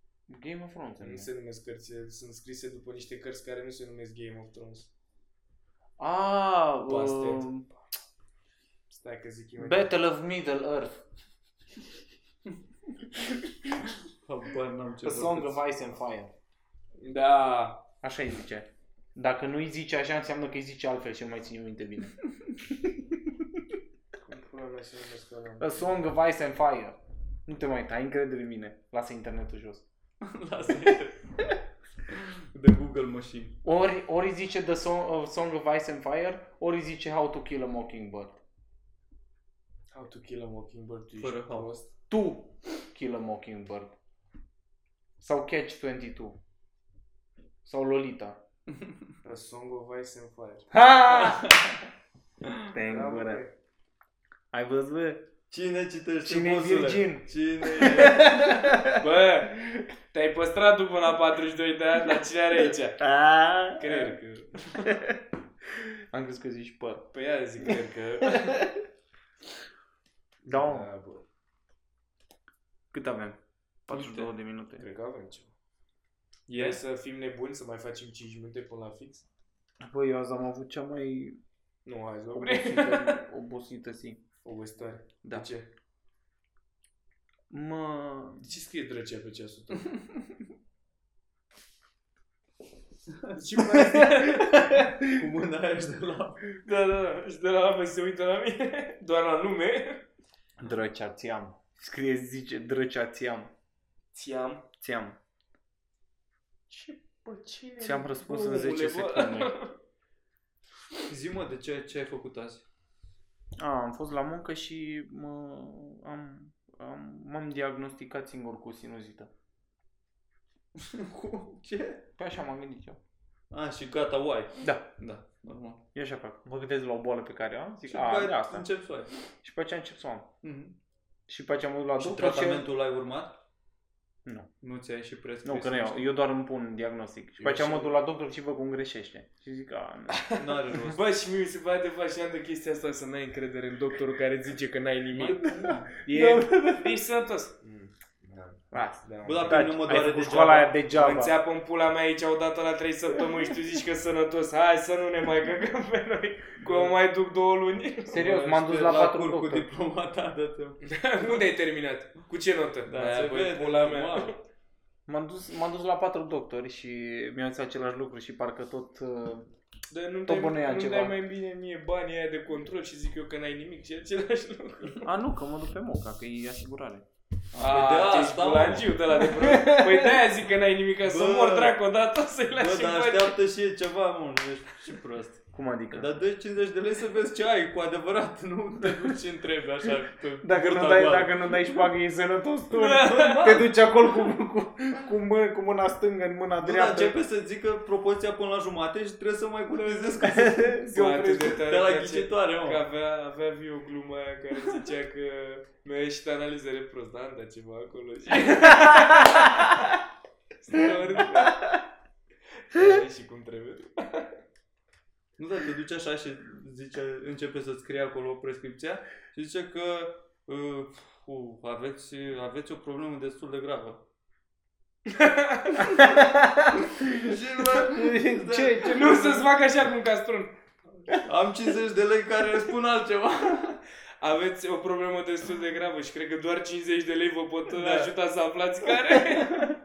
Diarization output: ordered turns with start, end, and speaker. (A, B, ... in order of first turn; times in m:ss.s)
0:00.3-0:01.3 A
0:01.0-0:04.9 B
0:06.0-0:07.6 A
0:06.9-0:07.7 B
0:08.9-0:09.9 B
0:09.6-0:11.0 A
0:14.2-0:15.6 C
0:15.0-0:16.3 A
0:17.0-0:17.8 B
0:18.0-0:23.6 A
0:24.2-0:25.9 B
0:25.6-0:29.8 A
0:30.2-0:31.5 C
0:32.1-0:33.6 C
0:33.6-0:38.4 A
0:39.9-0:41.9 B
0:41.2-0:41.7 C
0:42.1-0:43.9 A
0:45.2-0:46.4 A
0:47.6-0:48.4 A
0:49.2-0:50.7 B
0:50.7-0:51.6 A
0:51.1-0:51.8 C
0:52.4-0:52.7 C
0:52.7-0:53.4 A
0:52.9-0:53.5 B
0:54.5-0:55.3 A
0:55.5-0:58.6 C
0:56.2-0:59.0 A
0:59.0-0:59.6 B
1:00.1-1:03.0 B
1:03.0-1:04.2 A
1:03.8-1:05.0 B
1:04.8-1:05.2 A
1:05.7-1:07.1 A
1:07.1-1:08.6 B
1:08.4-1:08.8 A
1:10.4-1:11.2 B
1:10.4-1:10.9 A
1:12.9-1:14.8 A
1:13.9-1:14.3 C
1:14.8-1:15.5 B
1:16.5-1:16.8 C
1:16.5-1:19.2 B
1:19.8-1:21.4 A
1:21.8-1:23.2 B
1:22.3-1:24.2 A
1:24.4-1:25.7 B
1:27.5-1:28.4 A
1:28.4-1:29.9 B
1:33.3-1:34.5 B
1:33.9-1:36.4 C
1:34.8-1:35.1 A
1:36.6-1:40.0 B
1:40.6-1:43.5 A
1:44.1-1:44.6 B
1:44.8-1:45.2 A
1:46.7-1:49.7 B
1:47.8-1:49.5 A
1:51.1-1:52.6 C
1:53.6-1:59.3 A
2:00.8-2:02.0 C
2:02.2-2:03.0 A
2:03.5-2:05.8 C
2:04.6-2:04.9 A
2:05.9-2:08.6 A
2:07.8-2:09.1 C
2:09.4-2:10.3 A
2:10.4-2:10.7 C
2:11.3-2:12.7 A
2:12.0-2:13.4 C
2:14.2-2:14.5 A
2:14.6-2:16.2 C
2:15.4-2:20.2 A
2:17.4-2:17.9 B
2:20.1-2:29.7 B
2:20.4-2:21.0 C
2:25.1-2:25.9 C
2:25.5-2:27.0 A
2:28.7-2:31.3 A
2:29.2-2:30.8 C
2:30.9-2:38.2 B
2:36.6-2:36.9 C
2:38.1-2:39.7 A
2:38.1-2:40.9 C
2:40.8-2:44.4 B
2:42.9-2:44.3 C
2:45.1-2:49.5 A
2:49.9-2:55.1 B
2:50.3-2:51.1 A
2:55.0-2:57.0 A
2:57.5-2:59.3 C
2:57.6-3:03.4 B
2:59.4-3:00.1 A
3:01.0-3:01.8 C
3:02.5-3:11.5 C
3:05.5-3:06.1 A
3:10.4-3:17.2 A
3:12.7-3:13.4 B
3:13.0-3:13.7 C
3:16.6-3:22.8 C
3:19.8-3:20.2 B
3:20.2-3:21.5 A
3:20.8-3:30.0 B
3:30.6-3:31.6 B
3:32.7-3:34.4 B
3:35.4-3:44.0 C
3:45.0-3:46.0 B
3:46.0-3:49.4 A
3:46.8-3:49.2 C
3:48.8-3:50.5 B
3:51.0-3:53.8 C
3:54.2-3:59.8 B
3:57.7-3:58.1 C